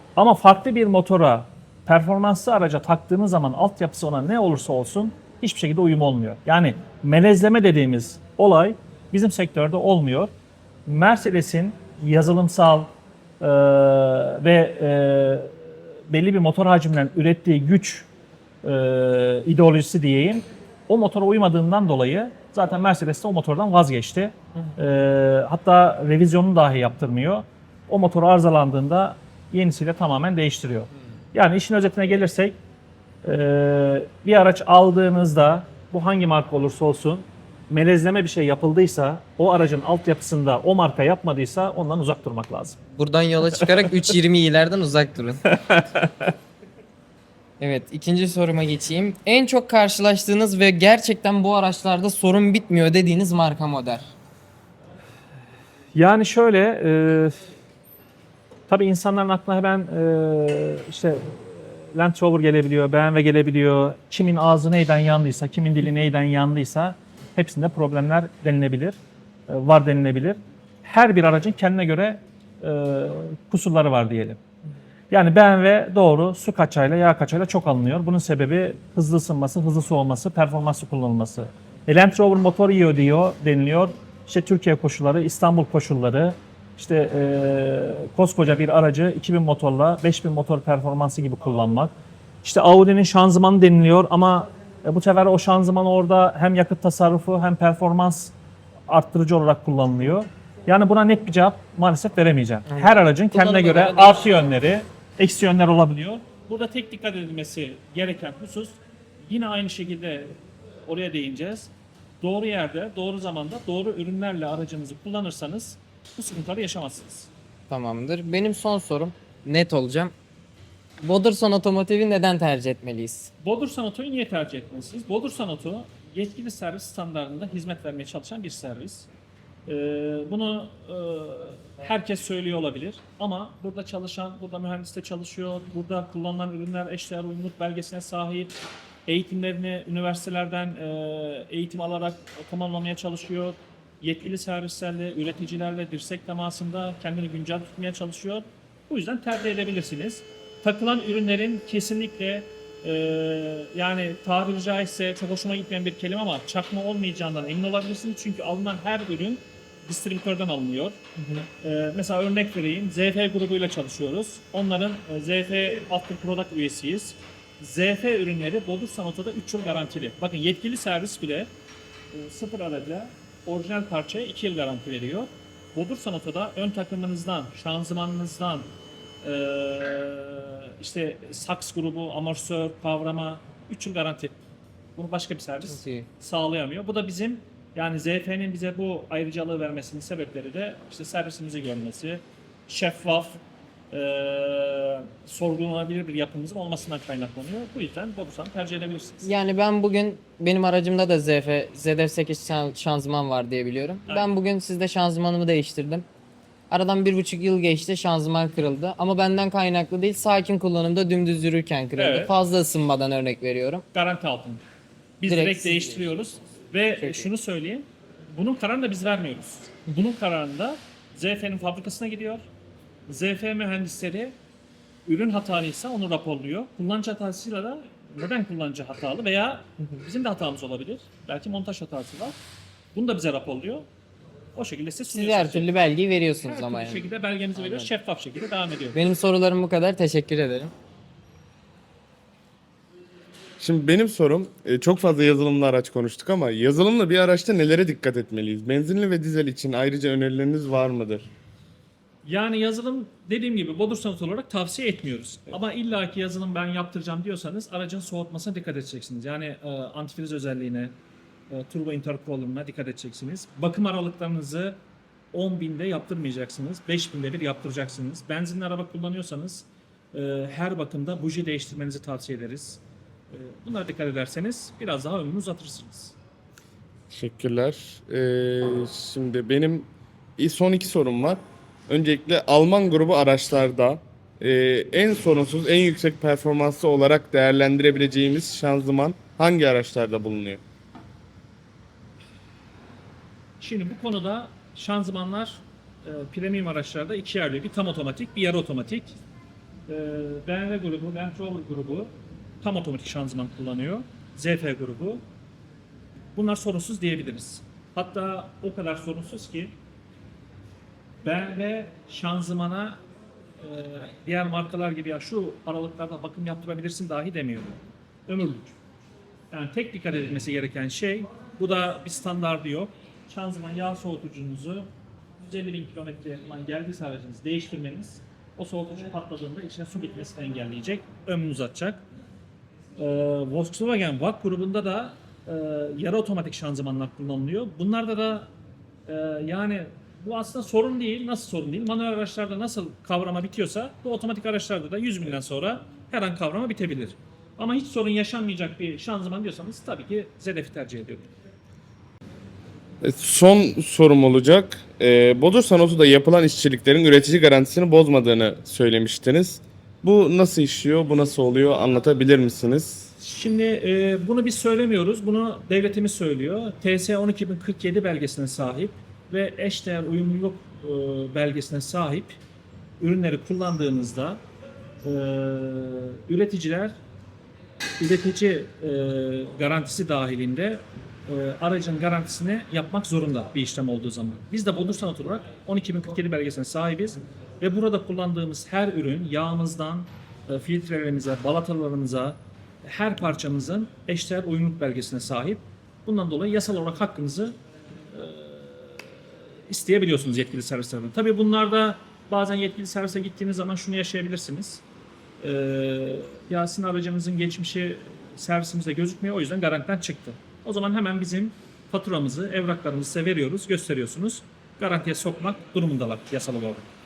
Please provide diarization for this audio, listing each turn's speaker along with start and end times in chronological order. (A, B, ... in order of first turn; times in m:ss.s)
0:00.2-0:10.3 A
0:10.9-0:18.1 A
0:18.6-0:32.6 A
0:33.2-0:42.8 A
0:42.9-0:45.4 B
0:45.5-0:46.3 A
0:47.6-0:54.1 B
0:56.0-0:57.5 A
0:58.7-1:09.0 A
1:09.5-1:14.4 A
1:15.1-1:31.9 A
1:32.4-1:38.3 A
1:38.9-1:57.3 A
1:42.7-1:44.3 B
1:57.7-2:00.1 B
2:01.0-2:03.3 B
2:03.4-2:09.1 A
2:09.7-2:41.0 A
2:41.2-2:41.4 B
2:41.6-2:51.5 A
2:52.1-2:58.7 A
2:59.2-3:04.4 A
3:05.0-3:13.4 A
3:05.7-3:06.1 B
3:13.9-3:19.3 A
3:19.2-3:26.1 B
3:26.7-3:33.8 B
3:32.0-3:32.3 A
3:33.9-3:34.6 A
3:35.2-3:42.5 A
3:35.2-3:36.3 B
3:37.0-3:37.3 B
3:43.1-3:44.4 A
3:45.1-3:52.4 A
3:52.9-3:53.9 A
3:54.6-3:55.7 A
3:55.1-3:57.9 B
3:56.4-3:59.0 A
3:58.9-4:00.7 B
4:03.6-4:11.3 C
4:12.2-4:20.9 A
4:21.5-4:24.8 A
4:25.3-4:36.2 A
4:37.1-4:50.6 C
4:53.6-4:59.2 A
4:59.9-5:05.2 A
5:06.4-5:09.8 A
5:11.2-5:13.0 A
5:13.6-5:18.7 A
5:19.5-5:24.9 A
5:25.4-5:32.0 A
5:33.0-5:38.5 A
5:39.1-5:51.3 A
5:53.0-6:03.1 C
6:03.2-6:12.4 A
6:13.0-6:14.4 A
6:15.0-6:17.0 A
6:18.0-6:37.6 A
6:38.1-6:39.0 A
6:39.7-6:44.8 A
6:45.4-6:56.9 A